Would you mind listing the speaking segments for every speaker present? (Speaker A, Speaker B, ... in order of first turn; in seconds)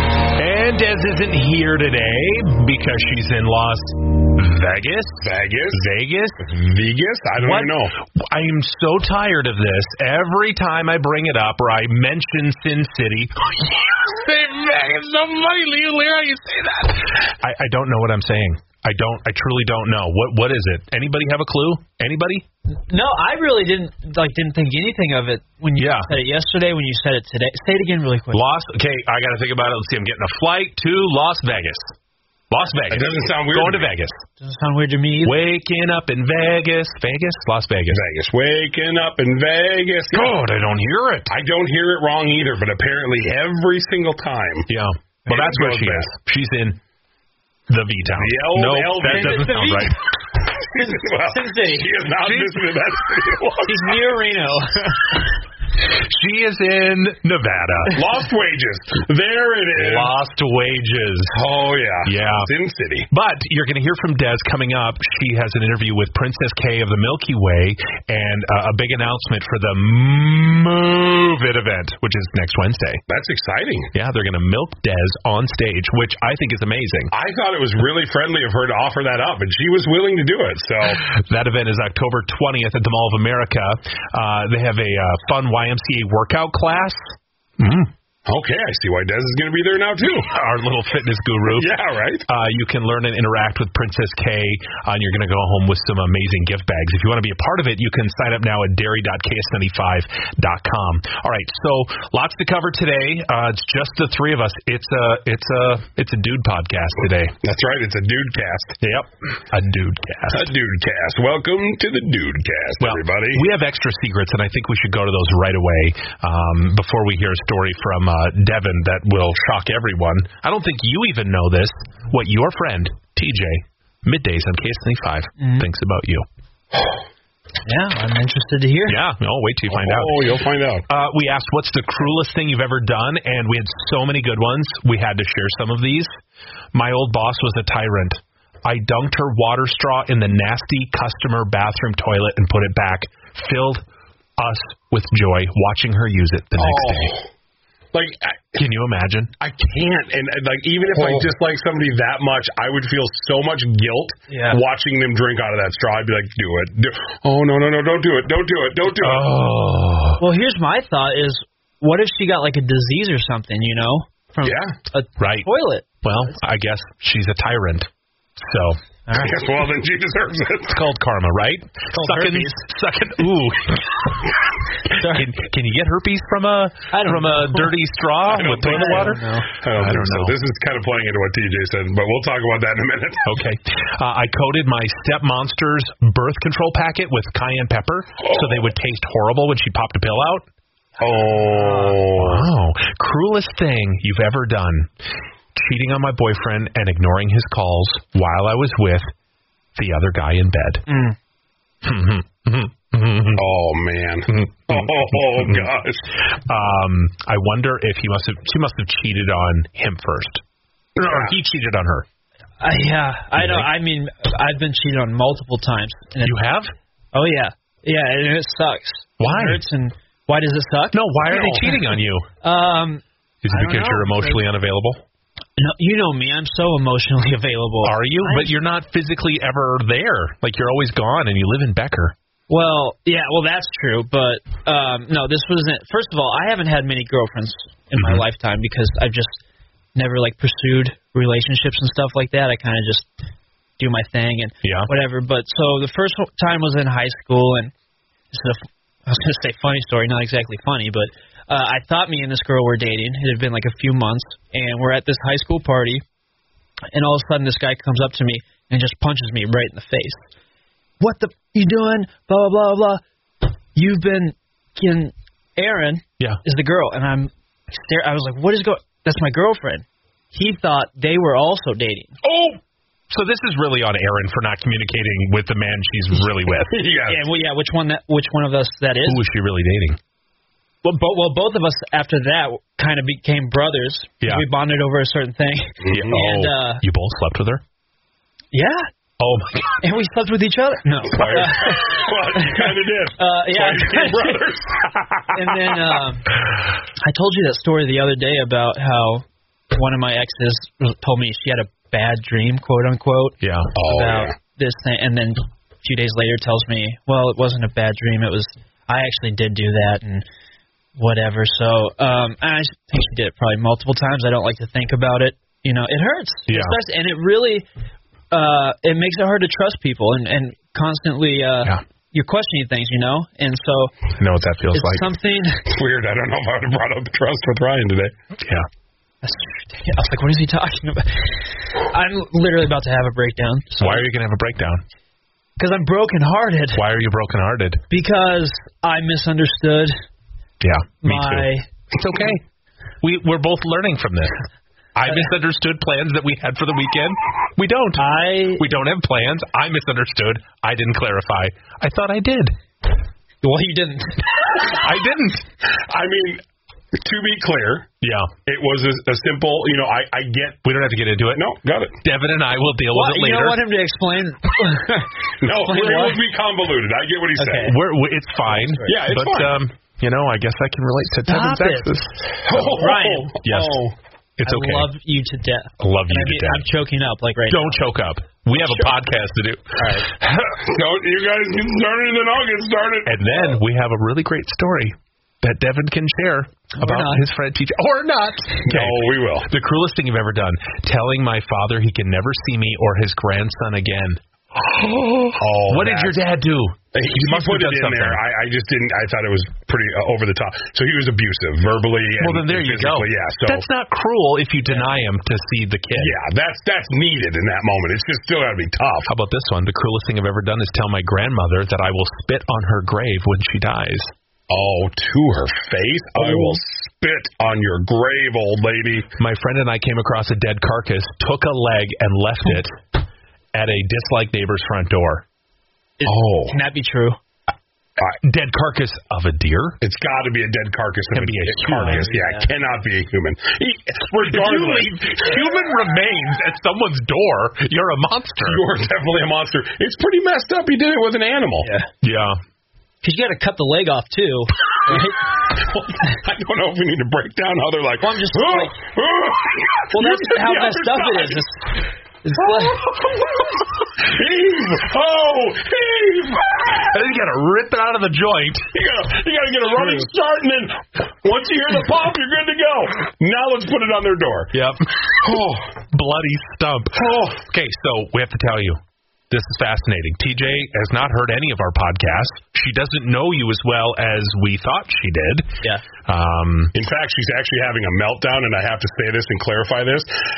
Speaker A: 0.3-5.2, 5.7-6.4, 7.4-22.4, 25.8-26.1, 28.3-31.9, 32.5-34.2, 35.2-38.0, 40.1-41.3, 44.7-46.8, 47.7-50.0, 52.2-52.7, 56.0-58.0, 59.8-61.3, 62.0-62.5, 63.1-73.0, 73.9-77.1, 81.0-87.0, 87.6-87.9, 90.3-91.7, 92.3-107.3, 108.8-110.5, 112.8-126.2, 128.9-130.2, 130.9-136.1, 136.7-143.8, 144.4-147.2, 148.6-149.3, 150.9-151.3, 158.9-160.2, 165.2-165.5, 166.0-167.9, 168.4-168.8, 170.7-174.2, 175.0-180.3, 183.2-190.4, 192.2-194.9, 195.6-199.1, 199.8-200.8, 201.8-203.4, 204.3-205.7, 206.5-210.4, 211.0-212.1, 213.4-213.7, 216.2-216.7, 219.2-219.6, 220.9-222.3, 223.4-225.0, 227.8-232.1, 238.0-238.2, 244.6-244.9, 272.3-272.6, 273.1-276.8, 279.0-280.0, 285.9-287.6, 289.2-289.7, 303.4-303.7, 316.5-316.8, 324.2-325.1, 328.4-328.7, 333.8-334.8, 336.7-337.8, 340.6-342.4, 343.0-344.4, 344.9-352.6, 354.6-355.4, 358.0-358.3, 360.6-361.4, 362.0-363.6, 367.6-372.5, 373.4-373.8, 374.4-374.9, 375.8-376.6, 377.5-380.1, 383.0-398.2, 402.2-406.1, 409.1-414.1, 419.2-422.8, 423.5-425.2, 428.2-429.8, 431.1-432.1, 434.1-438.6, 442.0-442.4, 456.9-458.7, 464.5-465.1, 465.9-476.7
Speaker B: 5.2-5.8, 6.4-7.9, 32.9-33.9, 37.9-40.4, 41.3-44.7, 45.3-46.1, 48.1-49.8, 50.6-54.1, 57.9-60.1, 61.3-63.1, 73.1-73.9, 77.1-81.0, 88.3-90.3, 91.5-92.2, 107.4-108.9, 110.3-113.5, 129.7-130.8, 146.6-147.3, 147.9-148.4, 149.4-159.3, 164.4-164.7, 169.1-170.8, 178.3-183.2, 188.2-188.7, 191.0-192.5, 203.3-206.1, 211.0-211.3, 276.7-277.2, 285.8-286.3, 291.1-295.6, 303.8-304.3, 325.7-328.1, 355.9-356.4, 357.0-357.9, 358.4-360.6, 361.3-362.0, 365.4-367.7, 368.9-369.6, 372.4-373.9, 380.2-383.6, 388.6-389.5, 395.4-396.2, 396.9-403.6, 405.9-409.1, 414.5-419.1, 426.1-426.6, 429.8-435.5, 438.4-441.7, 445.5-451.4, 452.4-456.9, 458.7-464.5, 465.2-465.7, 466.9-467.4, 476.7-480.1
Speaker C: 22.9-28.4, 34.4-35.4, 49.0-50.1, 50.7-52.0, 53.6-55.2, 125.4-125.7, 127.6-129.0, 154.3-154.6, 160.2-165.9, 169.1-169.4, 171.9-172.6, 174.9-175.3, 176.9-177.7, 178.6-179.5, 191.0-192.0, 200.9-201.2, 212.6-216.4, 217.1-224.4, 225.6-228.6, 232.5-239.4, 239.9-243.1, 243.8-247.7, 248.3-256.0, 256.9-260.2, 261.0-263.0, 263.7-272.2, 277.0-279.2, 280.8-286.8, 288.5-288.9, 289.8-294.5, 295.3-296.3, 297.0-310.2, 310.9-317.6, 318.3-324.0, 324.7-325.6, 329.2-334.1, 335.6-336.8, 337.9-340.0, 341.0-341.7, 345.1-345.3, 347.9-348.7, 353.4-354.3, 362.9-366.2, 367.4-367.8, 368.4-368.9, 371.2-373.8, 374.4-377.9, 378.5-378.9, 379.8-380.1, 386.8-387.2, 426.0-427.2, 431.9-432.5, 441.6-441.9, 443.0-445.3, 448.0-448.8, 449.9-452.8